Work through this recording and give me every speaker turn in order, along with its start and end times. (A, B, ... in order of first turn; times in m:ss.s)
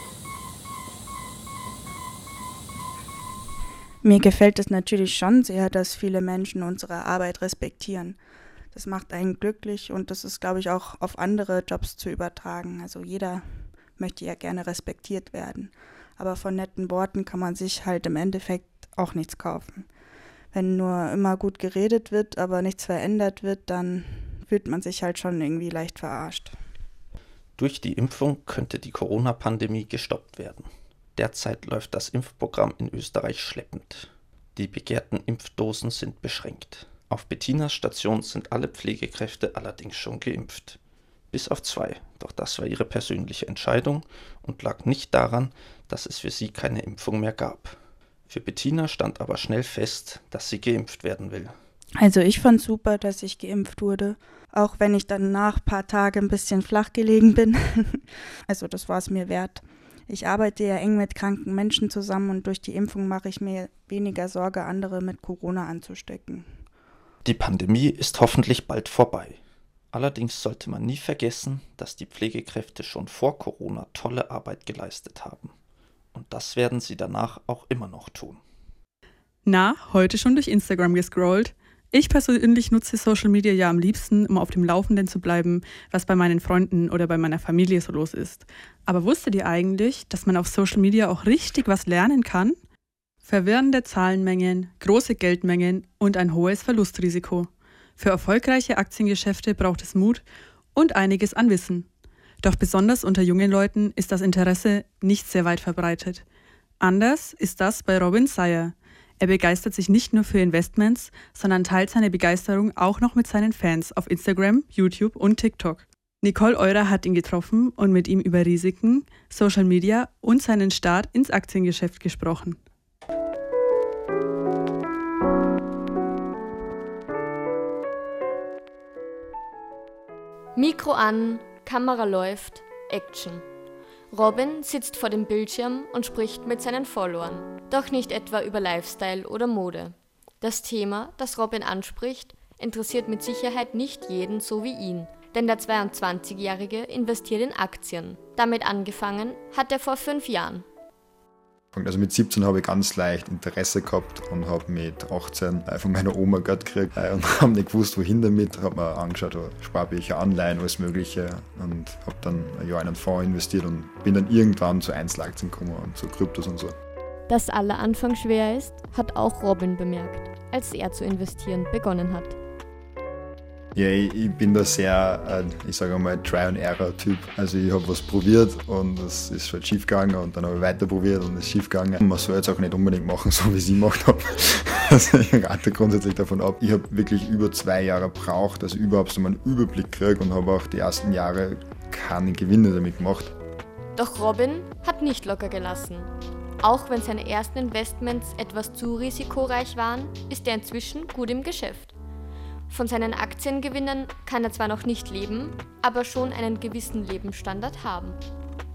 0:04.0-0:08.2 A
0:08.7-0:19.9 A
0:20.5-0:26.5 A
0:27.6-0:40.8 B
0:41.3-0:47.8 B
0:48.3-0:51.6 B
0:52.0-1:06.6 A
1:07.2-1:09.4 B
1:09.9-1:15.5 B
1:16.1-1:18.4 B
1:19.5-1:32.6 C
1:33.2-1:40.2 C
1:40.8-1:41.9 C
1:42.4-1:46.2 C
1:46.8-2:02.6 C
2:10.6-2:13.4 D
2:14.1-2:30.6 D
2:31.7-2:46.8 E
2:47.3-2:52.4 D
2:53.8-3:13.3 E
3:14.0-3:21.9 D
3:22.7-3:28.2 D